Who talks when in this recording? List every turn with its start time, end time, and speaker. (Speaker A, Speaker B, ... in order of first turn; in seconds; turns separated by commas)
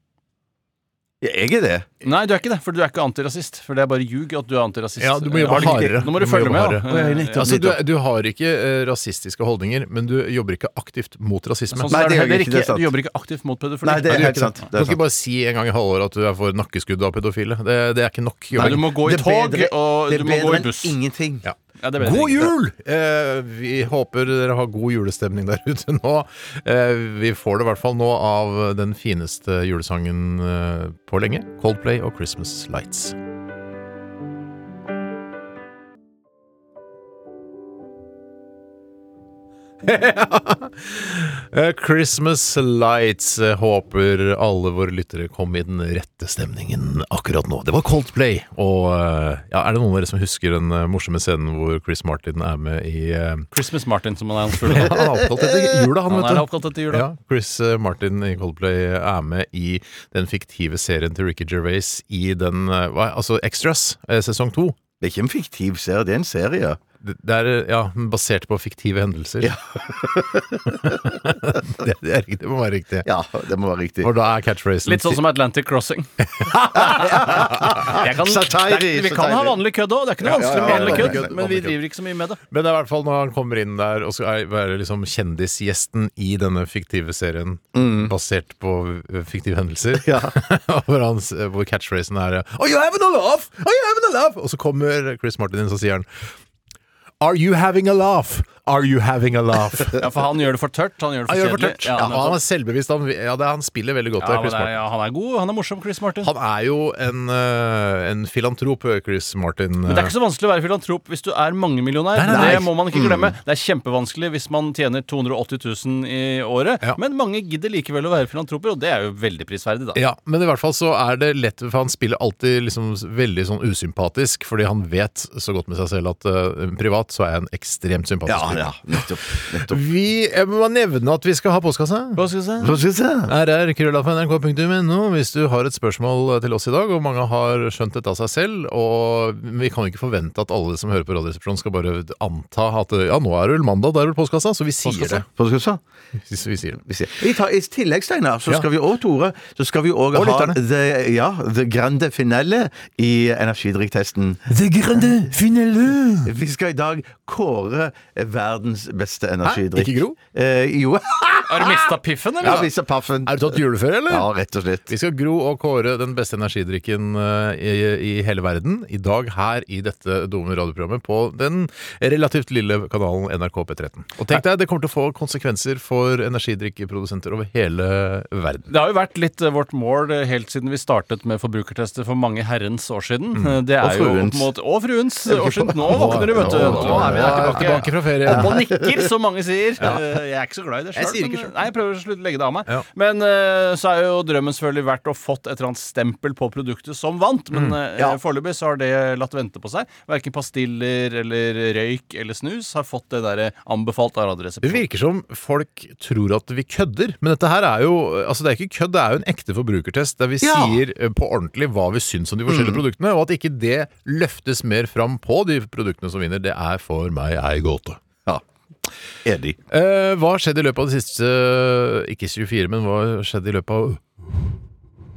Speaker A: 1.2-1.9, Speaker B: 2.0-7.6, Speaker C: 5.0-12.0, Speaker A: 5.4-6.2, Speaker A: 6.9-7.8, Speaker B: 11.7-14.6, Speaker A: 11.9-12.9, Speaker A: 13.8-15.0, Speaker C: 14.1-18.9, Speaker B: 18.6-21.0, Speaker A: 18.6-21.5, Speaker C: 21.4-33.2, Speaker B: 21.8-22.5, Speaker C: 39.8-53.5, Speaker B: 53.5-55.0, Speaker C: 54.6-64.8, Speaker A: 55.0-55.6, Speaker B: 56.1-57.1, Speaker A: 65.0-66.8, Speaker C: 67.0-69.5, Speaker A: 69.4-71.6, Speaker C: 70.8-73.1, Speaker A: 73.0-74.1, Speaker C: 74.0-75.2, Speaker B: 74.8-76.1, Speaker C: 76.3-77.8, Speaker A: 76.8-79.6, Speaker B: 77.0-82.4, Speaker A: 80.2-81.3, Speaker C: 80.2-81.8, Speaker C: 82.5-96.1, Speaker A: 87.8-88.1, Speaker A: 90.0-90.3, Speaker C: 97.2-100.1, Speaker B: 100.0-102.4, Speaker C: 101.3-104.8, Speaker B: 104.2-106.3, Speaker C: 106.2-110.1, Speaker B: 109.9-120.0, Speaker C: 112.2-113.2, Speaker A: 112.3-113.1, Speaker C: 120.0-132.2, Speaker A: 128.3-129.8, Speaker B: 132.2-132.8, Speaker A: 132.6-133.3, Speaker C: 133.3-145.3, Speaker A: 144.8-145.8, Speaker C: 146.2-146.8, Speaker A: 146.9-155.3, Speaker C: 150.1-150.6, Speaker C: 154.5-156.3, Speaker A: 156.2-161.8, Speaker C: 159.4-160.2, Speaker B: 161.5-162.7, Speaker A: 162.4-164.9, Speaker C: 163.2-164.3, Speaker C: 164.9-178.7, Speaker B: 178.7-204.8, Speaker A: 183.8-184.5, Speaker A: 185.3-188.9, Speaker C: 185.9-188.6, Speaker C: 191.0-191.5, Speaker C: 204.6-218.0, Speaker A: 210.4-210.8, Speaker A: 212.5-212.8, Speaker A: 219.2-219.6, Speaker C: 219.7-224.6